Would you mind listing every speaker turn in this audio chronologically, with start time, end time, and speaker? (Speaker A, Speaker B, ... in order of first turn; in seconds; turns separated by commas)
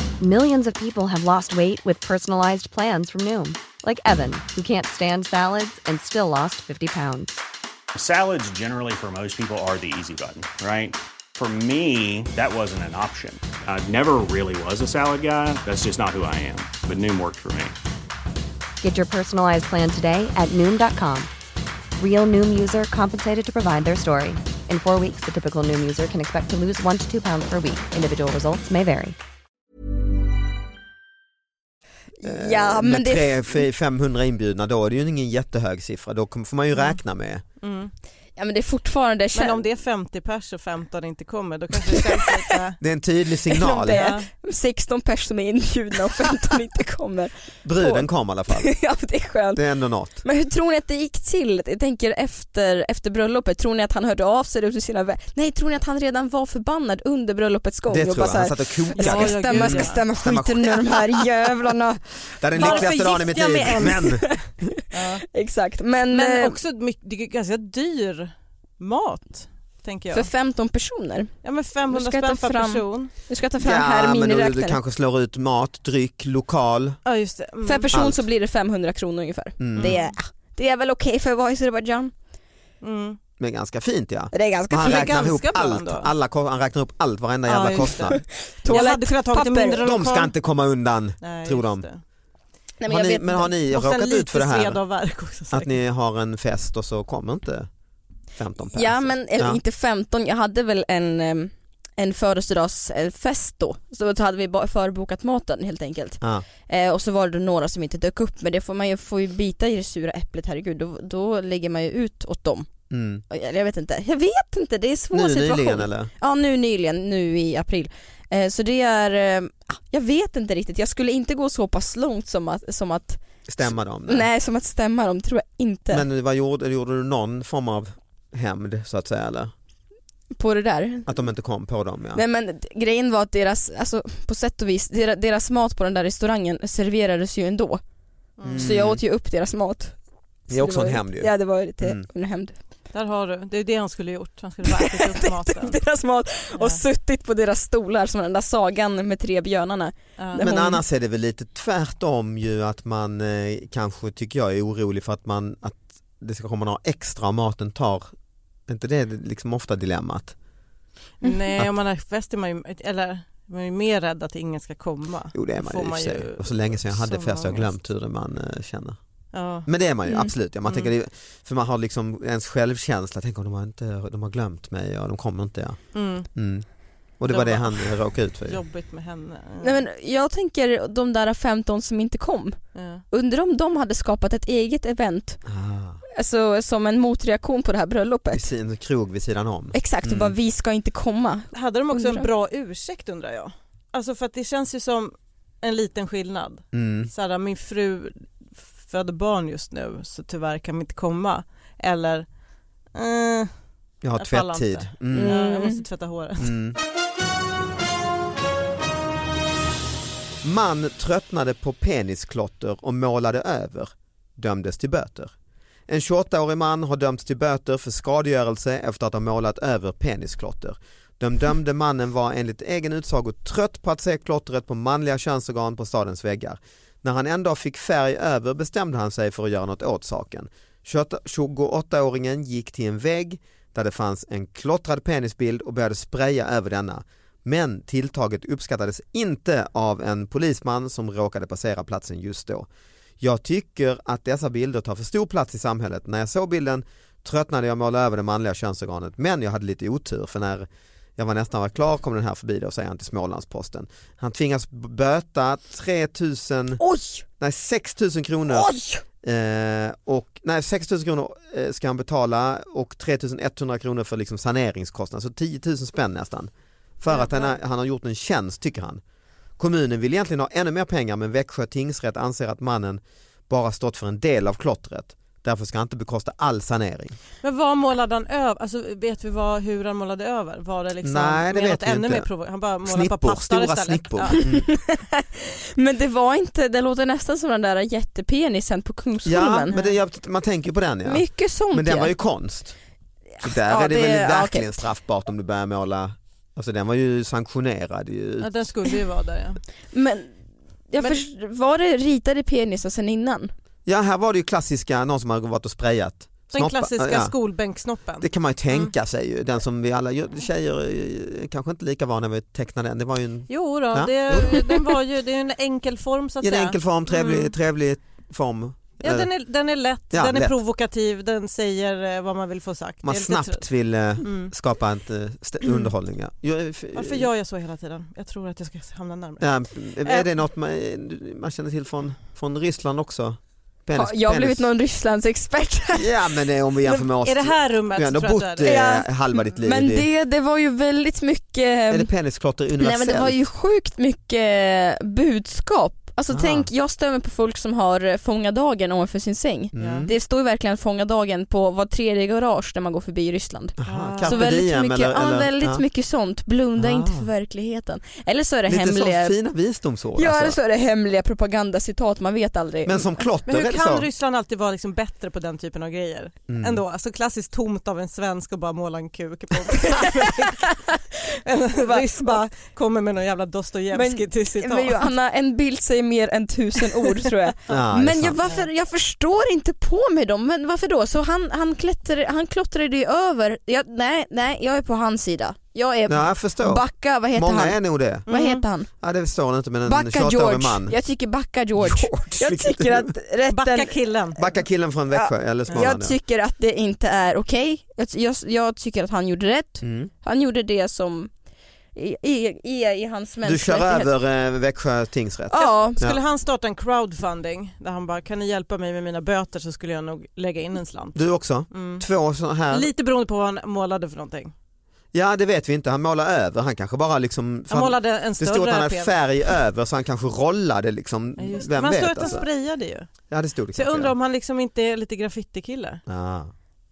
Speaker A: 0.2-7.4, Speaker B: 7.9-17.7, Speaker A: 18.8-21.3, Speaker A: 22.0-29.1, Speaker C: 32.2-33.6, Speaker D: 32.2-37.4, Speaker E: 37.6-37.9, Speaker C: 38.4-39.6, Speaker E: 39.3-42.8, Speaker D: 42.8-44.1, Speaker C: 43.5-49.6, Speaker E: 43.9-44.2, Speaker D: 47.6-48.8, Speaker D: 49.5-50.2, Speaker C: 50.2-64.5, Speaker D: 57.9-61.2, Speaker E: 59.0-60.0, Speaker D: 62.4-64.4, Speaker E: 62.6-64.0, Speaker E: 64.9-65.2, Speaker C: 65.3-66.6, Speaker E: 66.1-70.3, Speaker C: 70.1-71.3, Speaker E: 71.4-73.1, Speaker C: 71.9-74.8, Speaker D: 73.6-77.0, Speaker E: 77.0-78.0, Speaker C: 77.6-82.1, Speaker D: 77.9-78.2, Speaker D: 79.6-80.0, Speaker E: 79.8-80.1, Speaker E: 82.8-83.2, Speaker D: 83.4-88.2, Speaker C: 84.3-85.1, Speaker E: 84.8-86.1, Speaker E: 87.5-90.3, Speaker C: 88.1-89.8, Speaker D: 89.8-91.8, Speaker E: 91.2-92.0, Speaker C: 92.8-93.5, Speaker D: 92.9-94.8, Speaker E: 93.7-95.8, Speaker D: 95.5-97.7, Speaker D: 98.3-99.6, Speaker C: 98.7-112.7, Speaker D: 112.9-113.2, Speaker C: 113.3-126.0, Speaker D: 115.1-116.1, Speaker D: 123.5-124.3, Speaker D: 125.9-129.5, Speaker C: 130.3-131.1, Speaker D: 131.1-132.2, Speaker C: 132.1-137.8, Speaker E: 138.4-138.7, Speaker D: 138.5-139.0, Speaker C: 138.5-139.9, Speaker D: 140.5-142.1, Speaker C: 140.5-142.5, Speaker E: 142.9-145.8, Speaker C: 144.7-150.8, Speaker E: 146.5-146.8, Speaker D: 150.3-158.1, Speaker D: 158.7-160.3, Speaker E: 161.2-167.7, Speaker D: 165.3-169.0, Speaker E: 169.3-169.7, Speaker D: 169.6-175.8, Speaker E: 170.7-170.9, Speaker E: 175.9-176.3, Speaker D: 176.3-176.7, Speaker D: 177.2-178.6, Speaker E: 177.3-179.8, Speaker C: 179.6-182.6, Speaker E: 182.7-183.0, Speaker C: 183.1-185.4, Speaker D: 185.4-186.0, Speaker C: 186.1-188.5, Speaker D: 188.3-190.3, Speaker C: 189.7-192.3, Speaker E: 191.5-202.3, Speaker D: 196.7-197.1, Speaker E: 202.9-203.5, Speaker D: 204.0-205.4, Speaker E: 204.2-206.5, Speaker C: 205.1-205.8, Speaker D: 206.4-206.8, Speaker D: 210.4-215.3, Speaker D: 215.9-242.7, Speaker D: 243.2-256.8, Speaker C: 256.8-257.2, Speaker D: 257.4-269.0, Speaker C: 258.5-259.0, Speaker E: 267.1-267.6, Speaker D: 269.6-277.2, Speaker E: 277.4-284.4, Speaker D: 281.0-282.3, Speaker D: 282.8-284.7, Speaker C: 284.3-289.7, Speaker D: 289.2-292.8, Speaker E: 289.7-289.9, Speaker C: 291.0-292.1, Speaker C: 293.4-294.8, Speaker D: 293.4-298.7, Speaker E: 298.4-299.6, Speaker C: 299.9-300.3, Speaker C: 300.9-303.5, Speaker D: 303.9-307.3, Speaker E: 306.5-308.9, Speaker D: 308.2-314.7, Speaker E: 313.5-317.5, Speaker D: 316.4-319.3, Speaker E: 319.0-323.6, Speaker D: 320.1-320.5, Speaker D: 323.0-327.3, Speaker E: 324.2-324.5, Speaker E: 325.6-325.9, Speaker E: 326.9-330.3, Speaker D: 329.4-334.6, Speaker C: 333.9-336.1, Speaker D: 335.9-340.1, Speaker E: 337.2-338.7, Speaker C: 338.6-342.1, Speaker D: 341.9-343.4, Speaker C: 342.8-359.3, Speaker D: 346.3-346.7, Speaker D: 349.7-350.1, Speaker E: 349.8-350.1, Speaker D: 353.8-355.8, Speaker E: 353.9-354.4, Speaker D: 356.8-357.3, Speaker D: 358.7-360.6, Speaker C: 360.1-363.1, Speaker D: 362.8-364.1, Speaker E: 363.4-370.6, Speaker D: 366.5-366.8, Speaker C: 369.9-371.0, Speaker E: 371.4-375.1, Speaker C: 371.8-372.4, Speaker C: 373.9-388.9, Speaker D: 377.7-378.4, Speaker D: 386.1-388.2, Speaker E: 388.3-388.6, Speaker D: 388.9-391.0, Speaker C: 389.8-393.9, Speaker D: 391.8-393.1, Speaker E: 393.5-394.4, Speaker D: 394.4-396.1, Speaker C: 395.1-401.3, Speaker D: 399.8-400.1, Speaker C: 401.9-404.1, Speaker D: 403.4-406.2, Speaker C: 405.5-406.0, Speaker E: 405.6-412.1, Speaker D: 411.1-412.9, Speaker E: 412.7-414.5, Speaker D: 415.1-422.5, Speaker E: 417.7-419.2, Speaker E: 421.4-423.1, Speaker D: 423.3-424.1, Speaker E: 423.7-426.0, Speaker D: 426.1-426.5